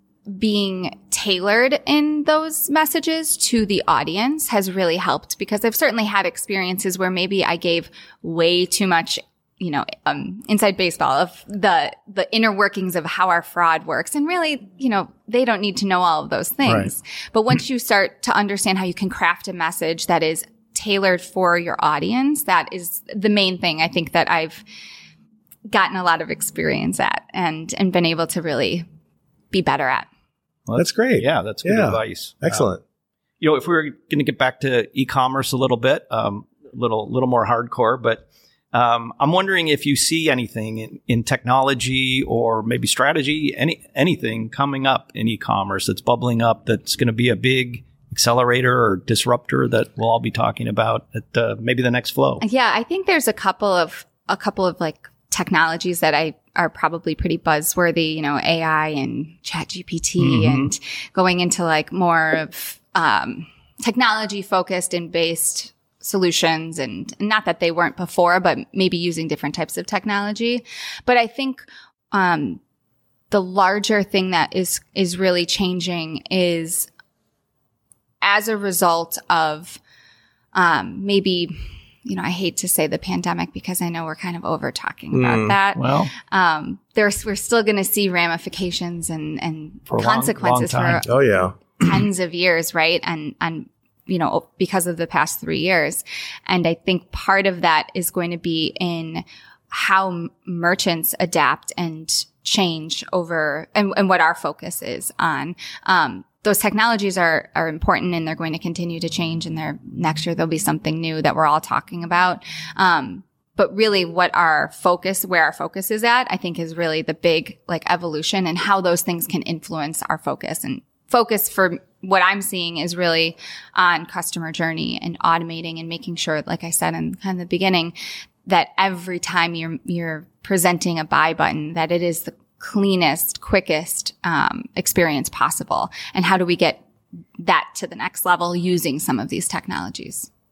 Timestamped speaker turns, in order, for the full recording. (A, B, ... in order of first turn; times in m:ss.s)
0:00.3-0:24.6 A
0:16.6-0:16.9 B
0:25.7-0:28.8 A
0:29.5-0:30.1 A
0:30.7-0:32.6 B
0:30.8-0:32.8 C
0:33.4-0:52.4 B
0:52.4-1:12.6 A
1:00.2-1:00.7 B
1:13.3-1:16.9 A
1:18.2-1:19.8 A
1:20.5-2:07.9 A
1:25.1-1:25.6 C
1:25.7-1:26.1 B
1:29.9-1:31.1 B
1:31.0-1:31.6 C
2:08.4-2:16.8 A
2:17.4-2:20.3 A